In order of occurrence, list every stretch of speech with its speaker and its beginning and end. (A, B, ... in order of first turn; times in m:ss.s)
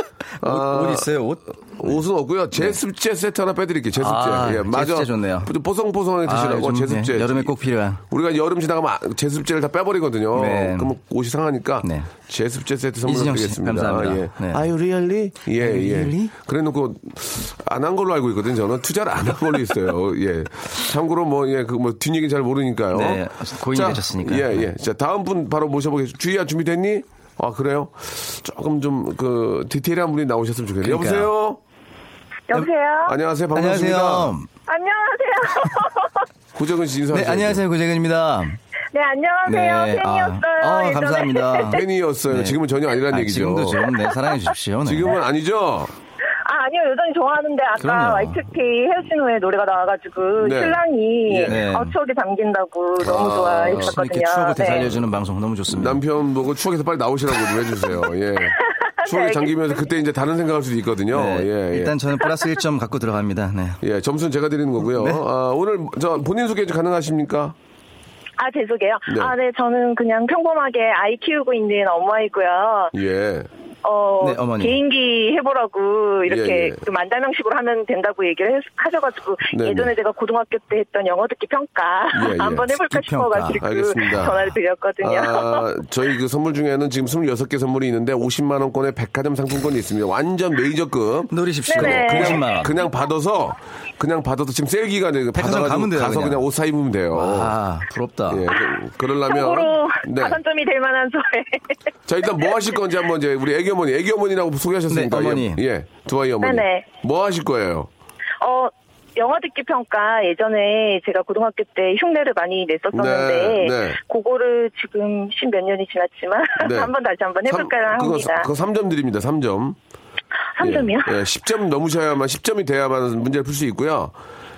0:00.4-0:02.0 A
0:00.4-0:01.1 B
0:01.8-0:07.5 B
0:04.0-0:05.5 A
0:06.2-0:08.0 A
0:08.1-0:31.6 B
0:10.3-0:10.9 A
0:11.8-0:12.1 A
0:13.0-0:14.7 A
0:15.6-0:16.3 A
0:22.9-0:24.7 A
0:30.8-0:31.3 A
0:32.5-0:33.2 C
0:33.0-0:34.3 B
0:33.5-0:34.5 A
0:34.7-0:36.2 C
0:36.5-0:37.6 B
0:37.1-0:38.6 A
0:38.9-0:41.8 C
0:39.4-0:42.6 A
0:41.7-0:43.9 B
0:43.1-0:45.2 A
0:44.8-0:45.9 B
0:46.4-0:54.9 C
0:47.8-0:48.4 A
0:50.4-0:51.6 B
0:51.4-0:51.9 A
0:53.0-0:54.0 B
0:53.7-0:56.0 A
0:54.6-0:55.0 B
0:55.7-1:02.0 B
0:58.5-0:59.8 C
1:01.1-1:03.8 A
1:03.8-1:07.6 B
1:04.8-1:05.2 A
1:08.4-1:12.9 C
1:09.1-1:09.3 B
1:12.9-1:13.5 B
1:13.8-1:25.6 C
1:14.2-1:14.8 A
1:16.2-1:16.8 B
1:19.5-1:19.9 B
1:22.1-1:22.7 B
1:22.9-1:23.6 A
1:23.6-1:24.4 B
1:25.0-1:37.5 B
1:31.3-1:32.7 A
1:31.7-1:32.5 C
1:35.3-1:36.4 A
1:37.1-1:38.5 A
1:38.3-1:40.4 B
1:39.2-1:41.7 C
1:42.1-1:47.9 B
1:44.9-1:45.6 A
1:46.4-1:46.9 C
1:48.4-1:58.5 C
1:52.9-1:54.0 B
1:56.6-1:56.9 B
1:57.5-1:59.8 B
2:00.6-2:01.2 C
2:00.6-2:04.1 B